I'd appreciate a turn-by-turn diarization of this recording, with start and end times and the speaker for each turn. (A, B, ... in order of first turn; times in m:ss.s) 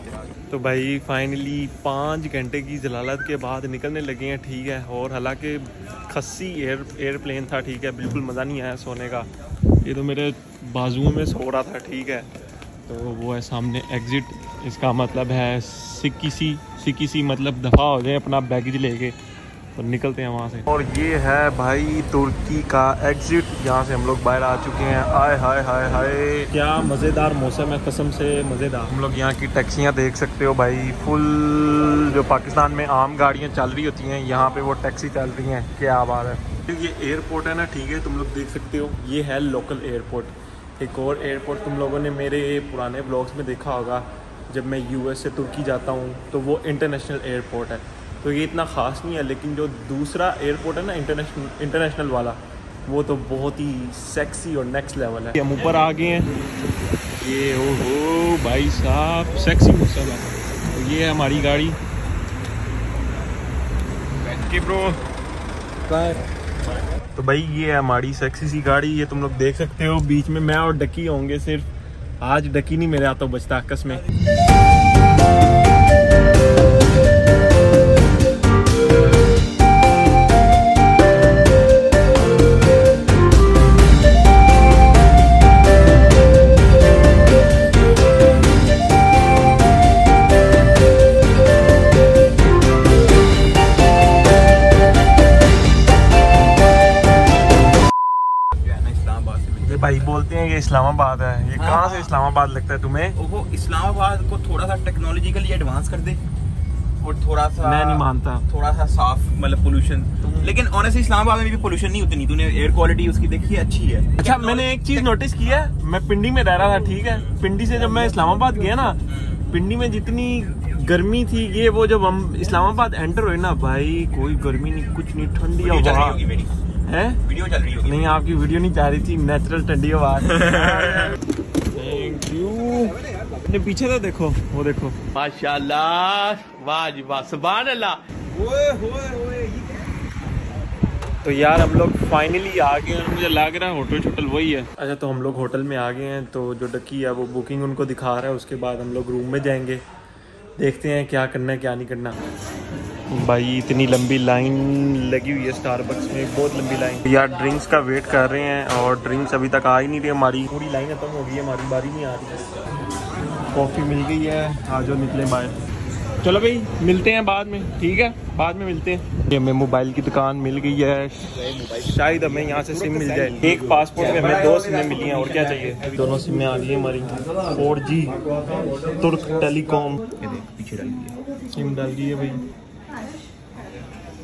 0:00.5-0:09.3 A
0:09.8-0:12.3 A
0:12.8-0:19.2 A
0:19.7-0:56.3 A
0:57.1-1:01.8 A
1:04.2-1:05.0 A
1:05.9-1:06.2 A
1:07.1-1:11.7 A
1:12.2-1:14.0 A
1:38.5-1:40.1 B
1:39.6-1:43.2 A
1:41.6-1:42.1 B
1:43.2-1:46.2 B
1:47.0-1:55.0 B
1:47.6-1:48.4 A
1:54.2-2:06.2 A
2:05.6-2:06.6 B
2:06.8-2:07.2 A
2:07.2-2:08.2 B
2:07.8-2:11.2 A
2:10.5-2:11.0 B
2:11.7-2:18.0 A
2:18.3-2:19.8 B
2:21.2-2:29.8 A
2:30.6-2:32.2 A
2:33.1-2:42.4 A
2:43.5-2:45.6 A
2:46.2-2:58.2 A
2:51.3-2:55.9 B
2:58.9-3:00.0 A
3:00.1-3:01.2 B
3:01.5-3:02.4 A